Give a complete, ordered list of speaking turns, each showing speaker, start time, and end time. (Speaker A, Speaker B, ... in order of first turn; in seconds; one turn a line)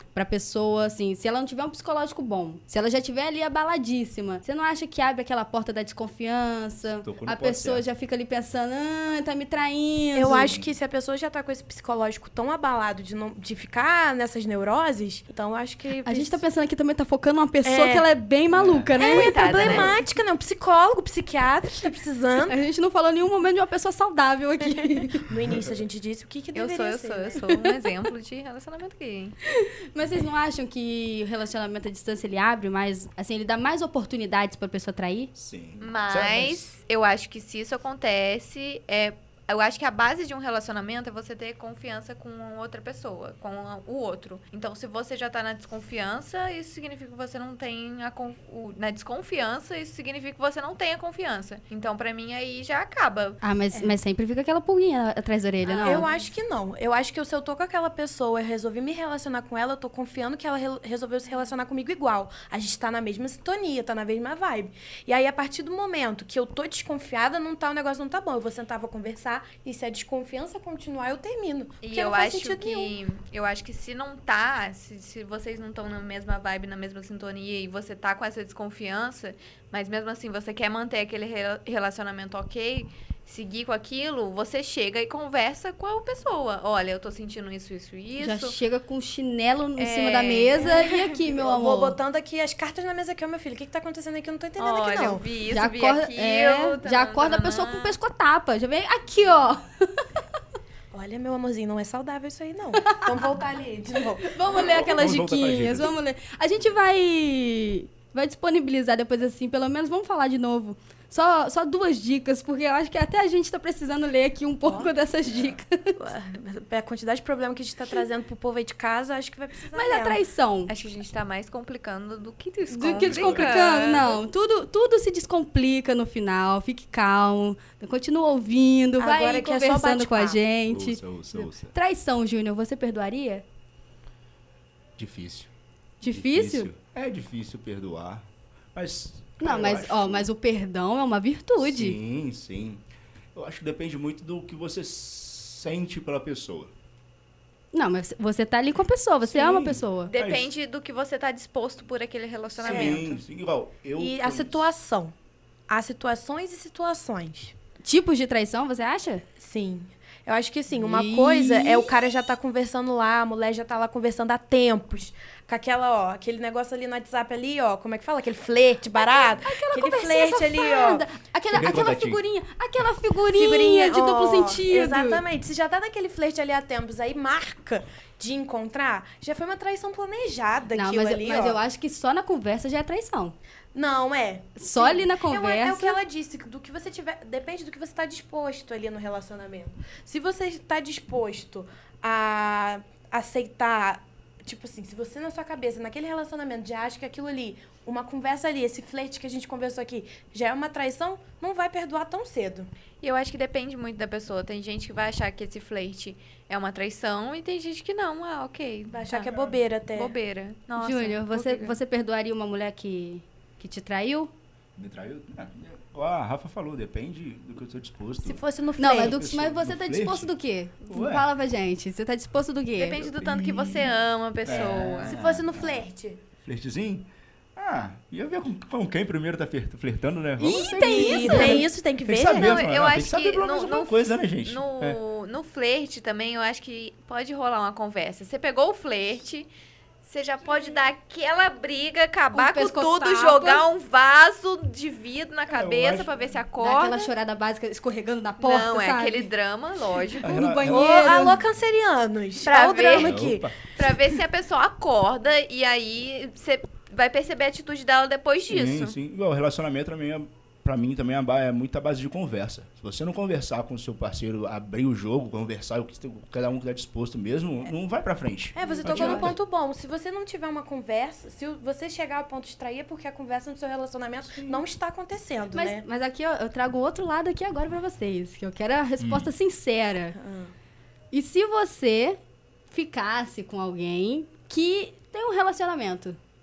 Speaker A: 0.1-10.5
Speaker B: 7.0-7.8
Speaker C: 10.1-16.4
Speaker B: 10.3-10.7
Speaker A: 16.0-19.9
Speaker C: 17.6-18.1
Speaker B: 18.5-19.0
Speaker C: 19.0-22.5
Speaker D: 19.0-19.9
Speaker B: 19.6-19.9
Speaker A: 22.5-25.2
Speaker C: 24.6-27.4
Speaker D: 26.5-29.4
Speaker A: 29.6-35.3
Speaker B: 35.4-36.7
Speaker D: 35.8-53.4
Speaker A: 53.4-56.1
Speaker C: 53.7-54.0
Speaker D: 55.6-56.3
Speaker C: 55.8-73.0
Speaker D: 71.8-88.5
Speaker A: 88.2-92.0
Speaker D: 89.8-91.0
Speaker C: 90.6-95.2
Speaker D: 94.6-98.0
Speaker A: 95.5-99.9
Speaker C: 100.9-104.4
Speaker A: 102.8-103.2
Speaker A: 104.2-116.0
Speaker B: 104.5-105.9
Speaker C: 114.6-114.9
Speaker C: 116.0-120.2
Speaker A: 119.7-120.7
Speaker D: 120.7-124.2
Speaker A: 122.7-133.4
Speaker B: 123.0-124.0
Speaker C: 129.0-130.4
Speaker B: 130.7-131.7
Speaker B: 135.0-135.5
Speaker A: 136.0-136.7
Speaker B: 136.0-140.3
Speaker A: 139.4-142.0
Speaker B: 141.6-142.8
Speaker B: 143.3-146.7
Speaker A: 147.7-150.1
Speaker B: 149.3-150.5
Speaker D: 150.0-153.2
Speaker C: 152.6-153.1
Speaker B: 152.6-154.6
Speaker C: 154.0-155.1
Speaker C: 155.7-157.5
Speaker A: 157.8-159.2
Speaker C: 159.4-171.1
Speaker A: 160.7-161.9
Speaker A: 168.9-175.2
Speaker B: 171.5-172.2
Speaker C: 173.3-181.6
Speaker A: 180.7-183.3
Speaker C: 183.7-202.7
Speaker A: 184.6-186.0
Speaker D: 203.0-209.4
Speaker C: 208.9-210.1
Speaker D: 209.9-211.8
Speaker A: 210.8-214.3
Speaker B: 214.8-218.4
Speaker C: 218.2-219.2
Speaker A: 218.8-223.0
Speaker B: 218.9-220.3
Speaker B: 220.9-221.3
Speaker D: 222.8-225.2
Speaker B: 223.0-223.9
Speaker B: 224.4-225.8
Speaker C: 224.5-226.2
Speaker B: 226.4-235.0
Speaker A: 230.4-231.7
Speaker C: 230.5-232.6
Speaker D: 232.3-239.5
Speaker D: 240.0-247.1
Speaker A: 242.3-243.7
Speaker B: 245.5-246.1
Speaker A: 246.6-249.3
Speaker D: 248.4-250.4
Speaker A: 250.2-251.4
Speaker B: 250.2-251.4
Speaker C: 250.6-253.5
Speaker D: 252.4-259.0
Speaker B: 253.0-253.5
Speaker B: 258.5-269.4
Speaker C: 268.5-275.9
Speaker A: 268.6-269.3
Speaker A: 275.5-280.1
Speaker B: 279.0-279.3
Speaker C: 280.1-280.5
Speaker A: 281.1-282.2
Speaker A: 282.7-286.2